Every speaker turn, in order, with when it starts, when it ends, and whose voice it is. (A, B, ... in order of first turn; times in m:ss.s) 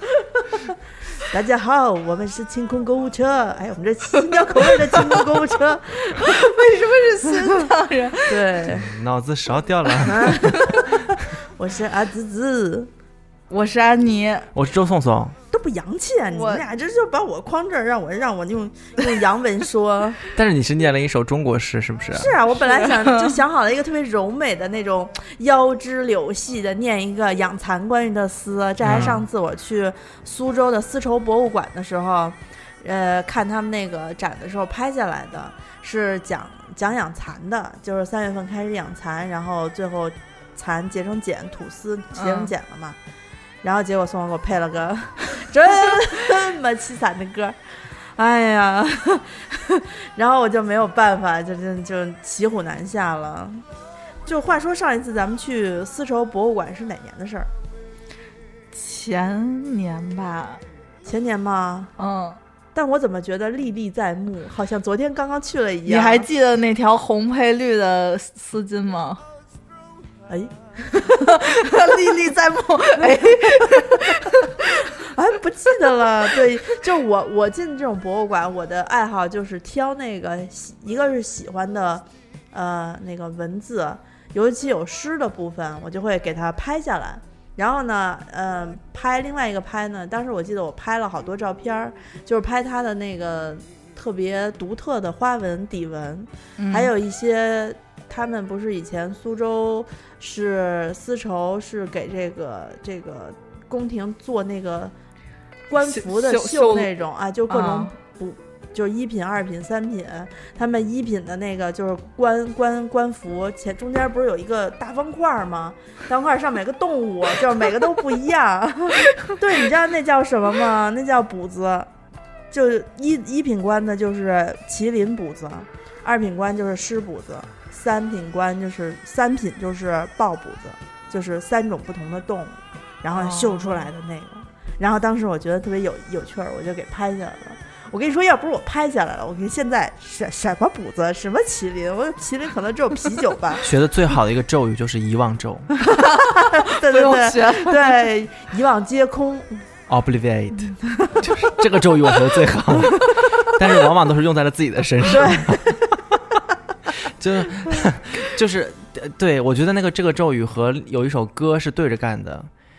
0:01.2-0:06.3 A
0:06.1-0:08.6 B
0:07.4-0:07.7 A
0:08.3-0:08.9 A
0:08.7-0:10.6 C
0:10.0-0:12.9 A
0:10.4-0:10.9 B
0:13.5-0:14.5 B
0:14.5-0:15.4 C
0:15.5-0:20.2 A
0:16.3-0:16.6 B
0:20.3-0:22.4 C
0:22.1-0:43.0 A
0:22.6-0:23.4 B
0:28.8-0:29.2 C
0:42.2-0:42.5 B
0:43.6-0:47.6 A
0:48.2-0:53.6 A
0:54.3-0:57.5 A
0:58.7-1:00.6 B
1:01.0-1:01.9 A
1:02.0-1:02.4 B
1:02.8-1:06.3 A
1:05.9-1:09.2 B
1:10.3-1:11.2 A
1:11.0-1:14.7 B
1:13.0-1:44.9 A
1:36.6-1:36.9 B
1:45.7-2:01.9 A
1:45.8-1:46.9 B
1:47.5-1:47.9 B
2:02.5-2:23.7 A
2:13.2-2:13.8 B
2:23.6-2:25.7 C
2:25.9-2:29.6 A
2:25.9-2:28.1 B
2:29.9-2:35.7 C
2:30.9-2:31.2 A
2:35.1-2:36.0 A
2:36.9-2:42.5 C